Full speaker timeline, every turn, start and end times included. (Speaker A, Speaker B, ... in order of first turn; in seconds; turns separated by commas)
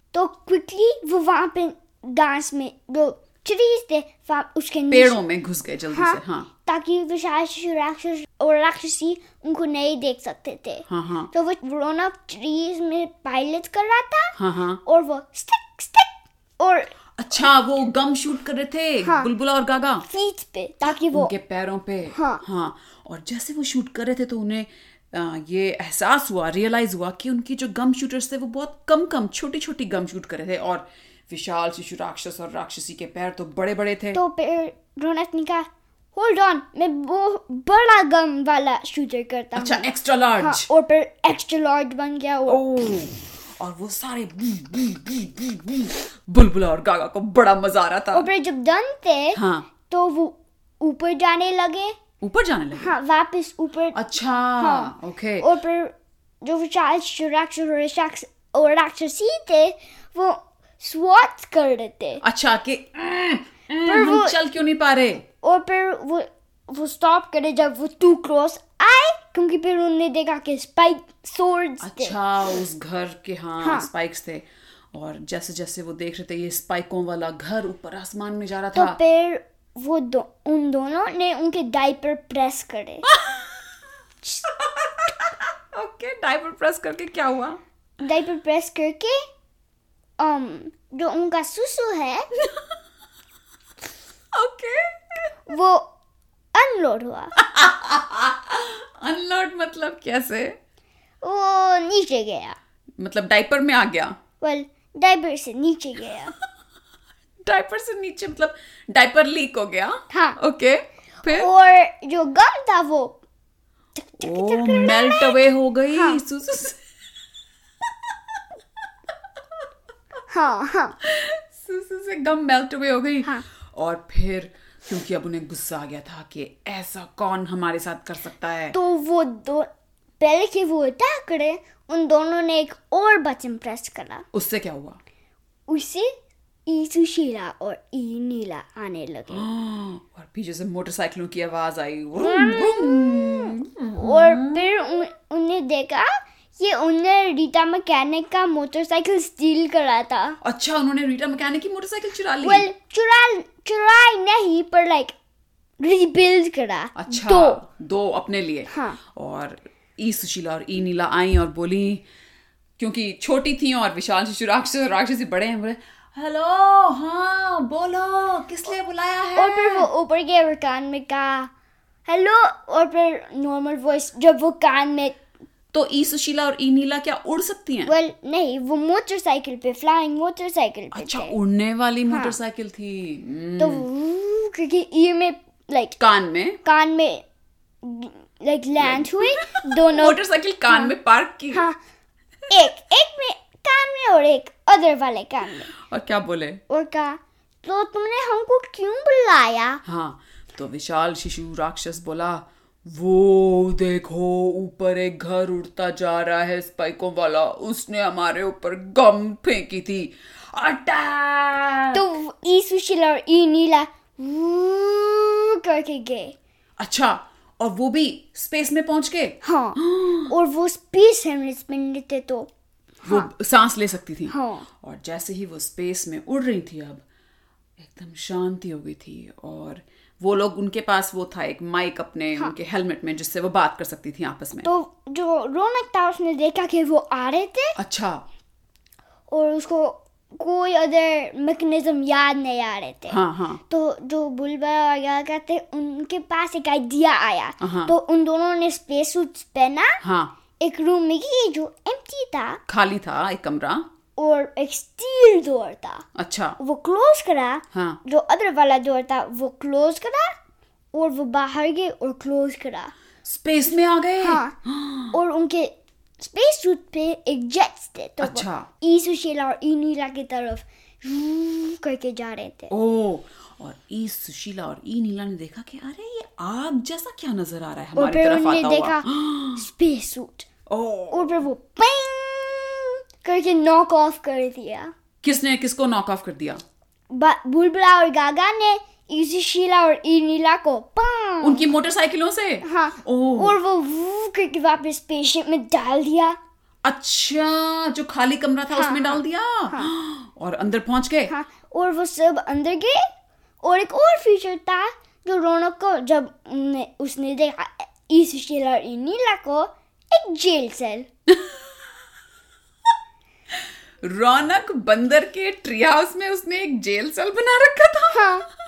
Speaker A: 0.1-5.2, Speaker B: 4.9-6.5, Speaker A: 5.9-16.9, Speaker B: 10.9-11.3, Speaker B: 14.3-14.8, Speaker B: 17.2-20.0, Speaker A: 19.0-19.3, Speaker A: 20.1-21.3, Speaker B: 21.1-34.2, Speaker A: 22.1-22.4, Speaker A: 34.1-39.8, Speaker B: 39.5-40.7, Speaker A: 40.4-42.6, Speaker B: 42.5-48.3, Speaker A: 48.1-52.0, Speaker B: 49.3-49.7, Speaker B: 52.2-52.9, Speaker A: 52.8-54.0, Speaker B: 53.9-55.5, Speaker A: 54.6-62.2, Speaker B: 62.2-65.2, Speaker A: 63.8-64.4, Speaker A: 65.4-72.2, Speaker B: 71.8-79.0, Speaker A: 73.6-73.9, Speaker A: 78.7-83.1, Speaker B: 83.1-83.6, Speaker B: 84.4-87.6, Speaker A: 88.0-89.2, Speaker A: 90.2-92.3, Speaker B: 94.3-95.3, Speaker A: 95.5-95.9, Speaker A: 96.5-97.3, Speaker B: 97.4-100.5, Speaker A: 101.2-102.5, Speaker B: 103.0-104.1, Speaker A: 104.4-106.3, Speaker B: 107.4-111.5, Speaker A: 110.1-110.4, Speaker A: 111.3-113.2, Speaker A: 114.0-115.4, Speaker B: 114.2-116.8, Speaker A: 115.9-116.2, Speaker A: 120.3-121.0, Speaker B: 121.0-128.8, Speaker A: 128.7-129.7, Speaker A: 130.2-134.2, Speaker B: 134.3-135.0, Speaker A: 135.7-136.1, Speaker A: 136.7-139.5, Speaker B: 139.3-144.7, Speaker A: 142.2-150.4, Speaker B: 150.4-152.7, Speaker A: 152.4-155.1, Speaker A: 155.8-157.6, Speaker B: 156.9-162.0, Speaker A: 158.7-159.0, Speaker B: 162.8-169.9, Speaker A: 169.3-171.5, Speaker A: 172.1-175.2, Speaker B: 175.7-177.9, Speaker A: 177.8-181.3, Speaker B: 180.9-183.8, Speaker A: 182.1-182.3, Speaker A: 183.6-186.0, Speaker B: 186.0-186.6, Speaker A: 186.6-187.2, Speaker A: 187.8-190.2, Speaker B: 188.8-191.6, Speaker A: 190.7-190.9, Speaker A: 192.5-195.7, Speaker B: 195.7-196.6, Speaker A: 196.7-199.8, Speaker B: 199.8-212.0, Speaker A: 211.9-216.3, Speaker B: 216.8-220.3, Speaker A: 219.4-222.5, Speaker A: 223.0-223.3, Speaker B: 223.1-227.0, Speaker A: 224.3-224.7, Speaker B: 227.8-234.7, Speaker A: 234.6-237.8, Speaker B: 237.8-238.2, Speaker A: 239.3-250.0, Speaker B: 243.1-243.6, Speaker B: 247.6-247.9, Speaker B: 250.0-250.3, Speaker A: 250.6-252.6, Speaker B: 252.7-253.8, Speaker A: 254.2-256.0, Speaker B: 256.1-256.6, Speaker A: 256.6-260.4, Speaker B: 257.7-258.0, Speaker A: 260.9-262.9, Speaker B: 263.2-265.2, Speaker A: 264.2-264.5, Speaker A: 265.1-272.7, Speaker B: 268.2-268.7, Speaker B: 272.7-279.6, Speaker A: 277.9-280.5, Speaker B: 280.7-281.4, Speaker A: 281.1-284.9, Speaker B: 285.2-286.6, Speaker A: 287.1-291.7, Speaker B: 291.4-293.5, Speaker A: 292.6-296.4, Speaker B: 296.8-301.3, Speaker A: 298.7-299.9, Speaker A: 301.3-303.0, Speaker A: 303.6-311.1, Speaker B: 311.3-311.8, Speaker B: 314.0-318.4, Speaker A: 318.1-318.4